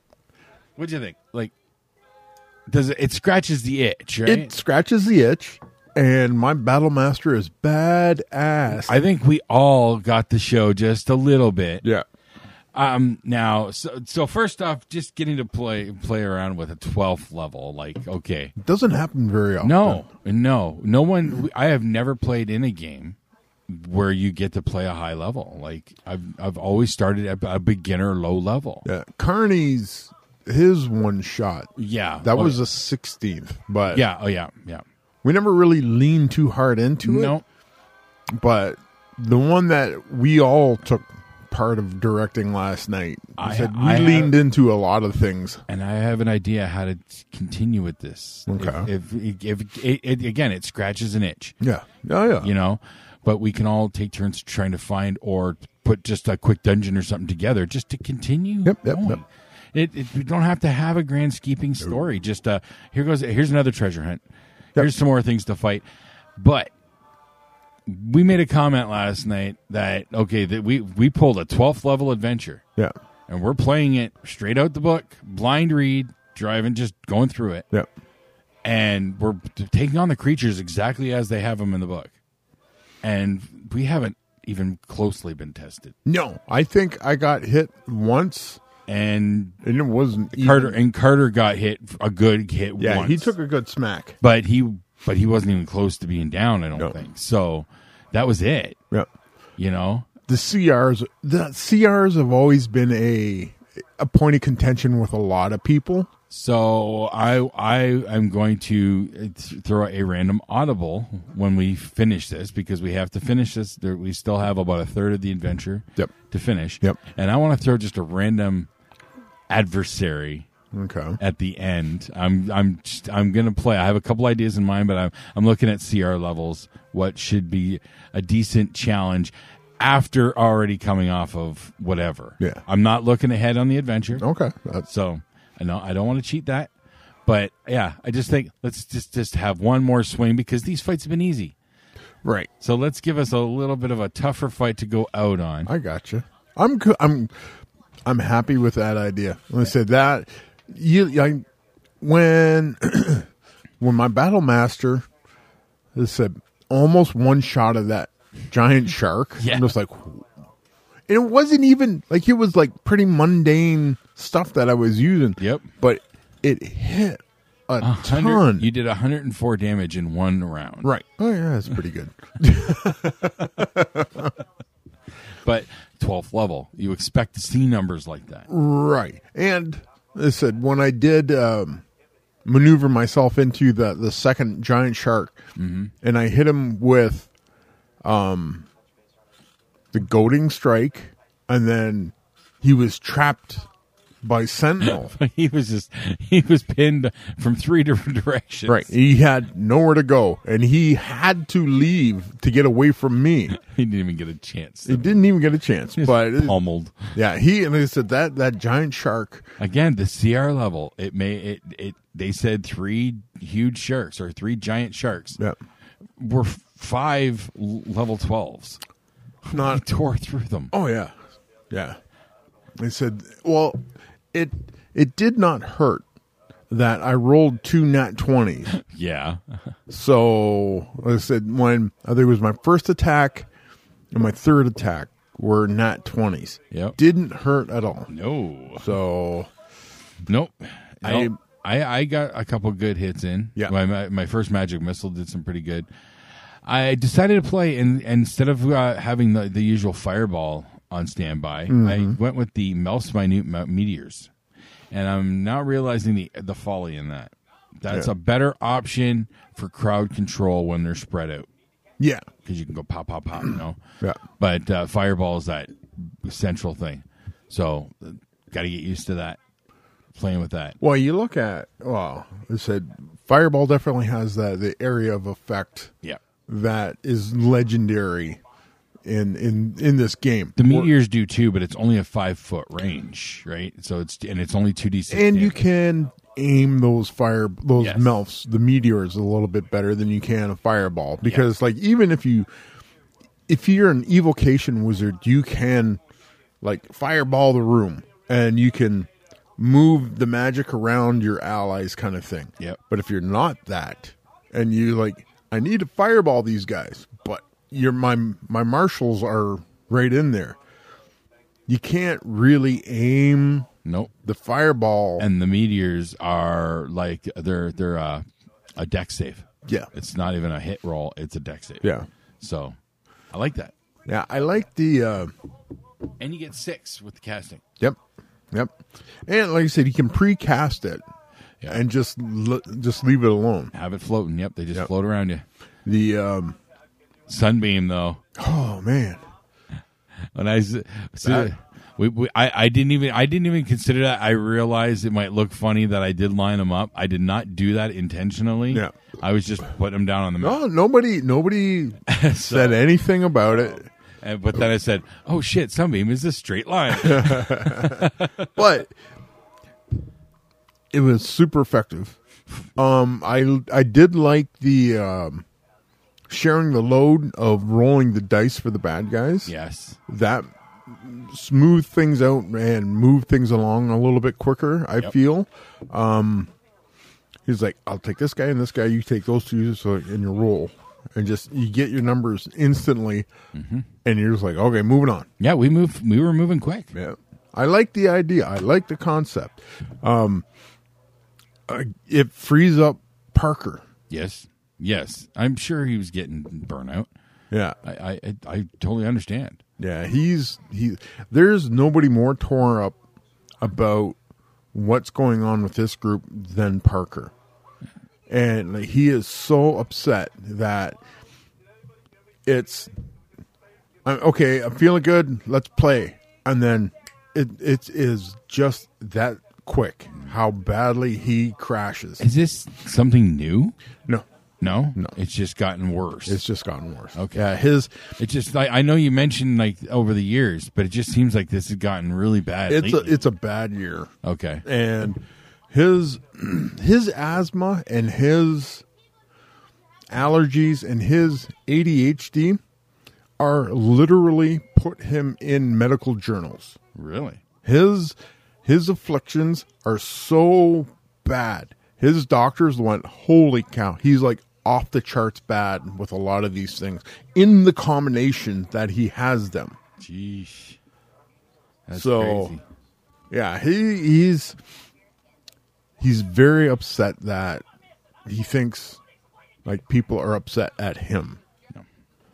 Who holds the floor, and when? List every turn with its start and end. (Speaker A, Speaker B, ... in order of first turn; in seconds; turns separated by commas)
Speaker A: 0.8-1.5, Speaker A: 2.7-4.5, Speaker B: 4.2-9.0, Speaker A: 8.7-11.8, Speaker A: 12.7-18.5, Speaker B: 18.6-20.1, Speaker A: 19.6-23.2, Speaker A: 23.7-28.9, Speaker B: 28.9-31.7, Speaker A: 31.8-32.6, Speaker B: 32.2-34.0, Speaker A: 33.9-34.8, Speaker B: 35.2-37.3, Speaker A: 37.0-37.4, Speaker B: 38.3-45.6, Speaker A: 43.4-44.4, Speaker A: 45.7-51.6, Speaker B: 48.5-48.9, Speaker B: 51.6-52.5, Speaker A: 52.4-64.2, Speaker B: 58.6-59.2, Speaker A: 64.8-65.8, Speaker A: 66.4-66.7, Speaker A: 67.9-72.6, Speaker A: 73.3-77.7, Speaker A: 78.6-82.1, Speaker A: 83.0-86.0, Speaker B: 86.0-88.6, Speaker A: 88.9-89.6, Speaker B: 89.6-90.8, Speaker A: 90.3-93.3, Speaker B: 92.8-94.2, Speaker A: 94.2-98.8, Speaker A: 99.6-100.1, Speaker B: 100.3-106.1, Speaker A: 106.3-118.7, Speaker A: 119.5-120.5, Speaker B: 120.7-121.2, Speaker A: 121.2-134.2, Speaker B: 134.2-134.8, Speaker A: 134.8-136.7, Speaker A: 137.3-141.6, Speaker B: 142.2-142.5, Speaker A: 142.6-145.7, Speaker B: 145.7-147.3, Speaker B: 148.1-151.4, Speaker B: 152.0-153.3, Speaker B: 153.8-155.1, Speaker B: 155.9-160.3, Speaker A: 159.4-159.7, Speaker B: 161.1-168.7, Speaker A: 165.4-165.7, Speaker A: 167.8-170.9, Speaker B: 170.8-174.3, Speaker A: 175.4-178.5, Speaker B: 178.5-181.8, Speaker B: 182.4-185.4, Speaker A: 185.6-185.9, Speaker B: 186.0-187.3, Speaker B: 188.0-188.7, Speaker B: 189.9-193.7, Speaker B: 194.2-195.2, Speaker A: 194.8-198.9, Speaker B: 198.7-203.6, Speaker A: 203.6-205.2, Speaker B: 204.9-206.6, Speaker A: 206.0-207.2, Speaker B: 207.1-209.5, Speaker A: 209.6-215.4, Speaker A: 216.2-218.8, Speaker A: 219.5-220.7, Speaker B: 219.5-219.8, Speaker B: 220.7-221.2, Speaker B: 221.7-222.0, Speaker B: 222.8-226.1, Speaker B: 226.7-228.8, Speaker A: 228.7-229.6, Speaker B: 229.9-233.5, Speaker B: 234.1-238.1, Speaker A: 236.7-237.0, Speaker A: 238.1-238.9, Speaker B: 238.8-239.5, Speaker A: 240.3-245.9, Speaker B: 241.0-241.4, Speaker A: 246.7-254.3, Speaker B: 251.7-252.2, Speaker A: 254.9-261.5, Speaker B: 262.0-262.3, Speaker A: 262.4-263.8, Speaker A: 264.4-269.4, Speaker A: 270.1-270.8, Speaker B: 270.8-275.9, Speaker B: 276.5-278.4, Speaker B: 279.1-280.9, Speaker A: 280.6-285.6, Speaker B: 285.1-292.5, Speaker A: 287.8-288.1, Speaker B: 293.5-296.0, Speaker B: 296.6-310.6, Speaker B: 311.7-313.7, Speaker A: 313.9-314.1, Speaker B: 314.2-315.3, Speaker A: 315.2-318.2, Speaker A: 318.8-322.8, Speaker A: 323.3-323.7, Speaker B: 324.1-325.3, Speaker A: 326.2-327.6, Speaker B: 329.3-331.0, Speaker B: 331.7-333.7, Speaker A: 333.7-335.4, Speaker B: 335.9-336.6, Speaker A: 337.3-338.2, Speaker B: 338.4-339.2, Speaker A: 340.4-350.6, Speaker B: 341.2-341.5, Speaker B: 350.4-353.9, Speaker A: 352.1-352.8, Speaker A: 353.5-358.5, Speaker B: 356.9-358.9, Speaker B: 360.9-362.2, Speaker B: 362.8-365.4, Speaker B: 366.3-369.5, Speaker A: 369.5-370.0, Speaker B: 370.1-376.5, Speaker B: 377.5-383.3, Speaker A: 383.6-383.9, Speaker B: 384.0-385.3, Speaker A: 385.4-386.9, Speaker B: 386.9-390.4, Speaker B: 391.7-393.9, Speaker A: 394.1-397.1, Speaker B: 397.5-397.8, Speaker A: 397.8-399.6, Speaker B: 399.8-403.0, Speaker B: 403.6-404.2, Speaker B: 404.7-407.3, Speaker B: 408.3-411.0, Speaker B: 412.5-412.9, Speaker B: 414.1-422.3, Speaker A: 422.2-423.8, Speaker A: 424.6-426.4, Speaker B: 426.3-428.1, Speaker A: 427.1-427.5, Speaker A: 428.2-433.2, Speaker B: 432.7-434.1, Speaker A: 434.2-434.7, Speaker B: 434.6-438.8, Speaker B: 440.1-442.6, Speaker B: 443.4-446.8, Speaker A: 446.9-447.4, Speaker B: 447.6-459.8, Speaker A: 460.0-460.8, Speaker A: 461.9-462.6, Speaker B: 461.9-462.6, Speaker B: 463.3-464.6, Speaker B: 466.0-467.6, Speaker B: 468.3-469.0, Speaker B: 469.6-471.4